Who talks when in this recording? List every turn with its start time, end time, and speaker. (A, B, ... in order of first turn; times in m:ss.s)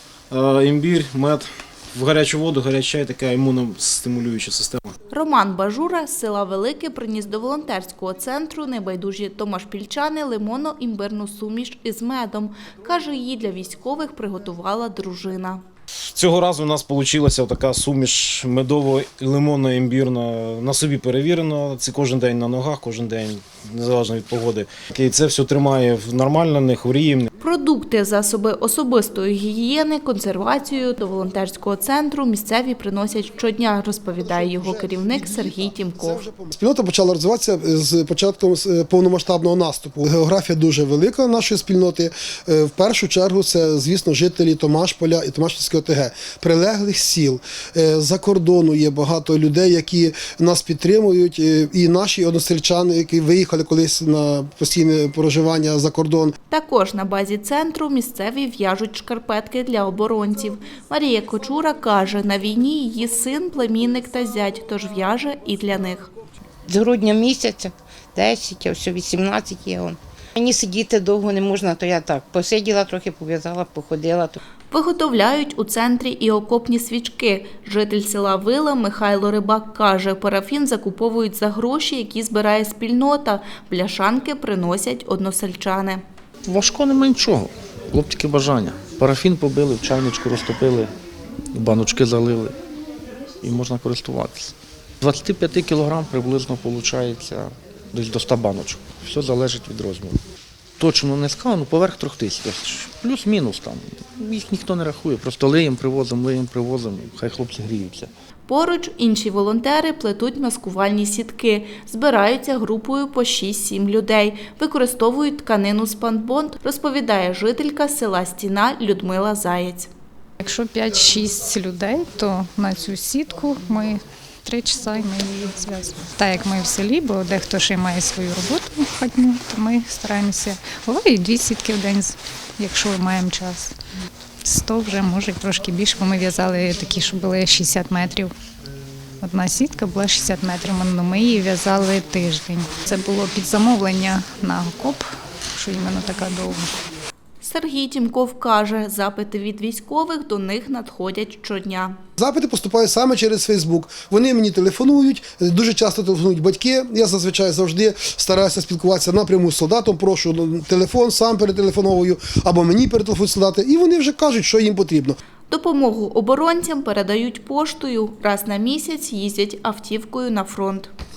0:00.3-0:04.9 A
0:05.1-0:15.6 B
0:16.2-0:27.3 A
0:27.4-0:36.2 B
0:34.2-0:56.3 C
0:56.5-1:06.1 B
1:06.6-1:14.4 D
1:14.7-1:26.0 B
1:26.4-1:30.9 E
1:31.5-1:32.6 E
1:33.4-1:40.2 E
1:40.8-1:48.1 E
1:48.5-1:59.9 B
2:00.4-2:13.7 F
2:14.4-2:18.3 F
2:19.2-2:26.7 F
2:27.4-2:32.0 B
2:32.2-2:45.2 C
2:45.5-2:50.9 B